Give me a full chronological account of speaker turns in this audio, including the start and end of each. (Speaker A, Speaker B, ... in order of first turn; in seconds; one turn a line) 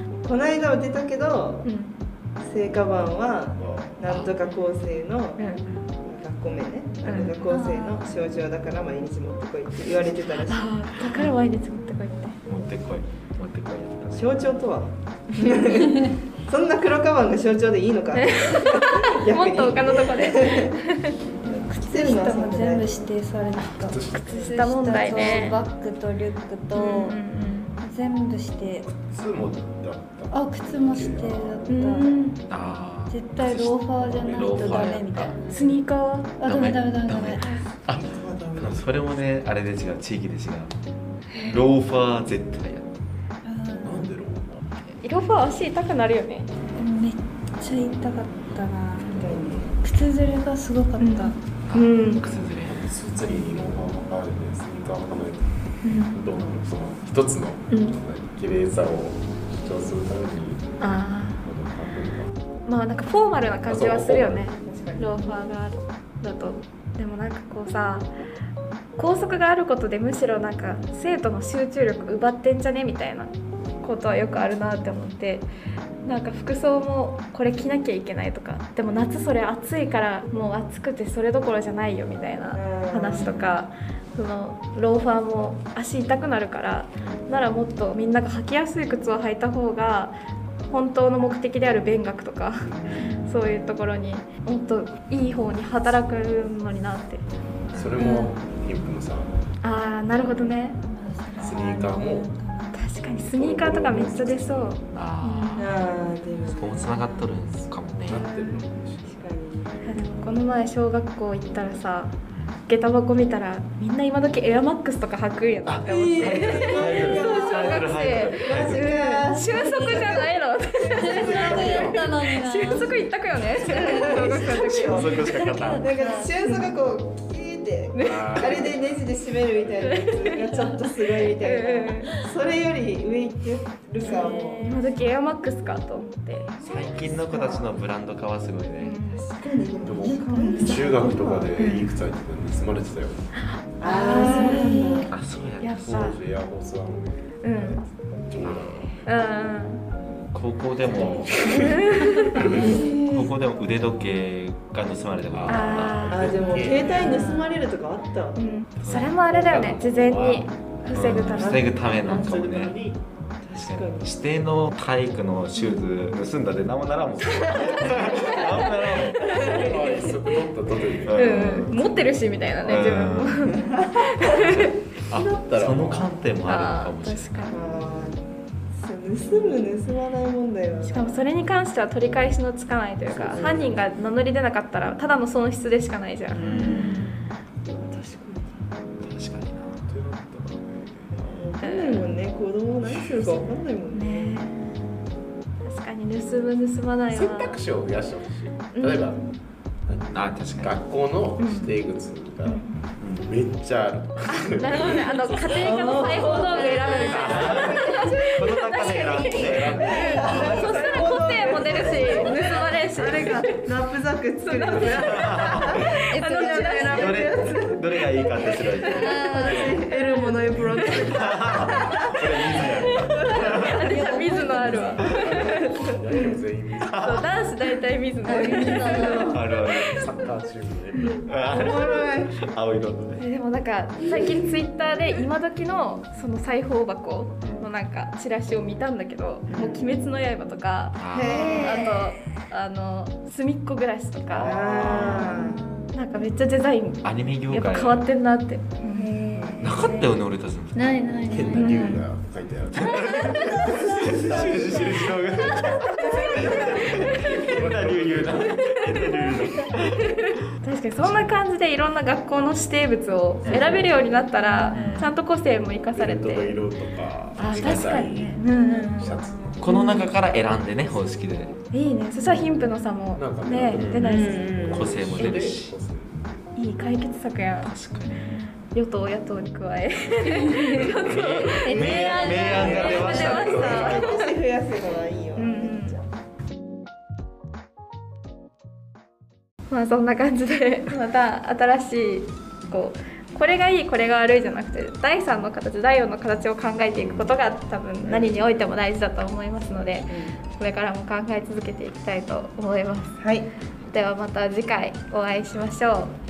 Speaker A: 0.2-1.7
Speaker B: 1.6-1.9
Speaker A: 2.4-5.4
Speaker C: 3.6-4.0
Speaker D: 4.0-4.3
Speaker B: 5.4-5.6
Speaker D: 5.6-5.9
Speaker A: 6.0-10.7
Speaker B: 7.0-7.3
Speaker E: 7.5-8.1
Speaker B: 10.4-12.4
Speaker D: 11.0-11.3
Speaker D: 12.4-14.5
Speaker A: 14.1-20.8
Speaker B: 18.1-21.1
Speaker E: 21.4-27.2
Speaker A: 21.5-23.1
Speaker C: 23.5-24.5
Speaker B: 24.1-25.6
Speaker C: 25.0-25.6
Speaker B: 26.7-27.7
Speaker E: 27.8-28.9
Speaker C: 28.9-31.8
Speaker E: 30.3-32.2
Speaker B: 31.7-32.4
Speaker D: 32.5-35.3
Speaker E: 33.1-35.8
Speaker B: 35.4-36.3
Speaker E: 36.4-37.5
Speaker D: 36.5-40.7
Speaker A: 38.0-38.8
Speaker B: 41.3-41.7
Speaker D: 41.4-43.0
Speaker E: 43.4-44.1
Speaker C: 43.8-44.6
Speaker B: 45.0-46.5
Speaker E: 46.8-51.4
Speaker A: 49.0-49.7
Speaker B: 51.0-52.3
Speaker D: 51.6-52.8
Speaker C: 52.6-55.5
Speaker B: 55.8-56.2
Speaker C: 56.1-60.9
Speaker B: 57.7-58.0
Speaker B: 60.8-61.4
Speaker C: 61.4-62.3
Speaker B: 62.6-68.1
Speaker C: 63.6-64.5
Speaker A: 64.6-65.4
Speaker B: 69.0-75.5
Speaker B: 76.0-90.2
Speaker A: 82.5-83.3
Speaker D: 83.2-83.5
Speaker B: 90.7-97.2
Speaker E: 93.0-93.4
Speaker D: 97.7-98.0
Speaker C: 97.7-99.3
Speaker B: 98.0-98.3
Speaker B: 99.6-100.8
Speaker E: 100.8-102.9
Speaker C: 101.4-102.3
Speaker B: 102.7-105.8
Speaker C: 103.2-104.8
Speaker D: 104.9-105.8
Speaker A: 105.5-107.0
Speaker E: 106.4-107.5
Speaker D: 106.4-108.2
Speaker C: 107.9-109.4
Speaker A: 108.1-109.8
Speaker E: 108.1-108.5
Speaker B: 109.8-125.4
Speaker D: 112.3-112.6
Speaker D: 115.6-118.9
Speaker A: 115.9-117.9
Speaker A: 118.4-122.1
Speaker E: 119.2-120.3
Speaker C: 120.8-122.1
Speaker E: 120.8-126.7
Speaker A: 123.6-125.2
Speaker D: 124.9-125.9
Speaker A: 125.8-134.7
Speaker B: 127.9-128.4
Speaker C: 128.0-130.2
Speaker B: 129.8-130.5
Speaker E: 130.4-130.8
Speaker B: 131.2-132.1
Speaker E: 132.0-132.3
Speaker E: 134.0-135.1
Speaker B: 134.0-136.8
Speaker A: 136.6-137.8
Speaker D: 136.6-139.0
Speaker B: 138.8-139.3
Speaker A: 139.1-141.5
Speaker C: 139.8-143.2
Speaker E: 140.1-140.7
Speaker B: 141.6-141.9
Speaker B: 143.4-145.1
Speaker A: 143.8-145.1
Speaker D: 145.1-146.1
Speaker B: 145.6-146.2
Speaker C: 145.8-149.0
Speaker B: 147.4-147.9
Speaker D: 148.4-148.9
Speaker B: 149.0-149.8
Speaker D: 150.3-156.2
Speaker C: 150.9-152.8
Speaker B: 151.5-152.3
Speaker A: 152.5-153.3
Speaker C: 155.3-157.2
Speaker B: 155.5-157.3
Speaker A: 156.1-158.4
Speaker E: 156.7-157.6
Speaker B: 158.3-161.8
Speaker D: 158.8-159.1
Speaker C: 158.8-163.1
Speaker A: 160.9-162.4
Speaker D: 160.9-162.9
Speaker A: 163.4-164.1
Speaker D: 163.5-169.2
Speaker B: 165.5-165.9
Speaker A: 167.3-168.7
Speaker B: 168.2-169.7
Speaker A: 169.2-170.3
Speaker C: 169.5-172.7
Speaker D: 171.1-171.7
Speaker B: 171.1-174.7
Speaker D: 172.6-173.6
Speaker A: 173.5-174.0
Speaker D: 174.2-177.5
Speaker C: 175.1-176.2
Speaker B: 176.4-177.6
Speaker A: 177.5-178.2
Speaker A: 178.8-181.2
Speaker B: 180.8-187.0
Speaker C: 183.1-183.7
Speaker A: 183.3-183.7
Speaker D: 186.3-187.2
Speaker A: 186.3-188.6
Speaker E: 186.6-186.9
Speaker D: 189.0-189.8
Speaker C: 189.9-191.5
Speaker A: 191.2-194.5
Speaker B: 191.6-192.0
Speaker C: 192.8-193.5
Speaker B: 193.9-194.7
Speaker B: 195.6-197.6
Speaker C: 197.1-199.3
Speaker B: 198.7-199.3
Speaker C: 199.8-205.7
Speaker D: 200.1-200.8
Speaker B: 201.4-201.8
Speaker B: 202.4-202.8
Speaker D: 203.0-203.3
Speaker B: 204.2-209.7
Speaker A: 205.6-223.7
Speaker C: 207.0-207.8
Speaker D: 207.2-210.9
Speaker C: 209.4-213.1
Speaker E: 209.9-210.5
Speaker B: 210.4-213.6
Speaker B: 214.4-217.2
Speaker D: 215.0-215.7
Speaker E: 216.1-217.2
Speaker D: 217.0-219.8
Speaker B: 218.6-220.2
Speaker E: 218.9-221.0
Speaker D: 220.9-223.8
Speaker B: 223.5-226.4
Speaker E: 223.7-225.2
Speaker C: 225.0-227.0
Speaker D: 226.8-227.3
Speaker B: 227.0-229.4
Speaker E: 228.2-229.4
Speaker A: 228.4-229.3
Speaker D: 229.0-230.0
Speaker C: 229.5-231.8
Speaker D: 231.2-233.2
Speaker A: 231.5-232.4
Speaker B: 233.2-245.0
Speaker A: 234.1-234.5
Speaker D: 237.4-237.7
Speaker A: 239.5-239.9
Speaker D: 240.9-241.5
Speaker A: 241.1-241.9
Speaker E: 241.3-242.1
Speaker C: 244.3-245.1
Speaker A: 244.4-245.6
Speaker D: 244.4-245.4
Speaker E: 245.0-245.9
Speaker B: 245.9-249.1
Speaker D: 247.0-248.1
Speaker E: 248.9-250.2
Speaker A: 249.3-249.6
Speaker D: 249.6-251.0
Speaker E: 250.7-252.0
Speaker C: 251.3-253.6
Speaker B: 251.5-252.0
Speaker D: 252.7-260.3
Speaker E: 253.2-256.8
Speaker C: 254.1-254.9
Speaker B: 256.1-257.4
Speaker C: 256.6-258.6
Speaker B: 258.5-266.6
Speaker D: 260.9-261.3
Speaker D: 263.4-263.9
Speaker E: 264.4-265.1
Speaker D: 264.7-265.1
Speaker C: 265.9-269.6
Speaker B: 267.4-269.1
Speaker D: 267.5-268.1
Speaker E: 268.4-269.7
Speaker D: 269.6-271.5
Speaker B: 269.6-270.1
Speaker B: 271.7-275.4
Speaker C: 273.1-276.5
Speaker D: 273.7-274.1
Speaker A: 274.0-274.9
Speaker D: 274.6-275.7
Speaker B: 276.6-277.7
Speaker D: 277.6-278.3
Speaker E: 277.9-278.6
Speaker B: 278.7-284.3
Speaker E: 280.4-280.6
Speaker D: 281.0-284.0
Speaker E: 281.6-284.0
Speaker A: 281.7-286.1
Speaker C: 282.6-283.7
Speaker B: 285.4-286.0
Speaker B: 289.7-303.2
Speaker A: 298.0-298.5
Speaker A: 300.1-300.3
Speaker A: 303.2-303.5
Speaker B: 303.9-306.1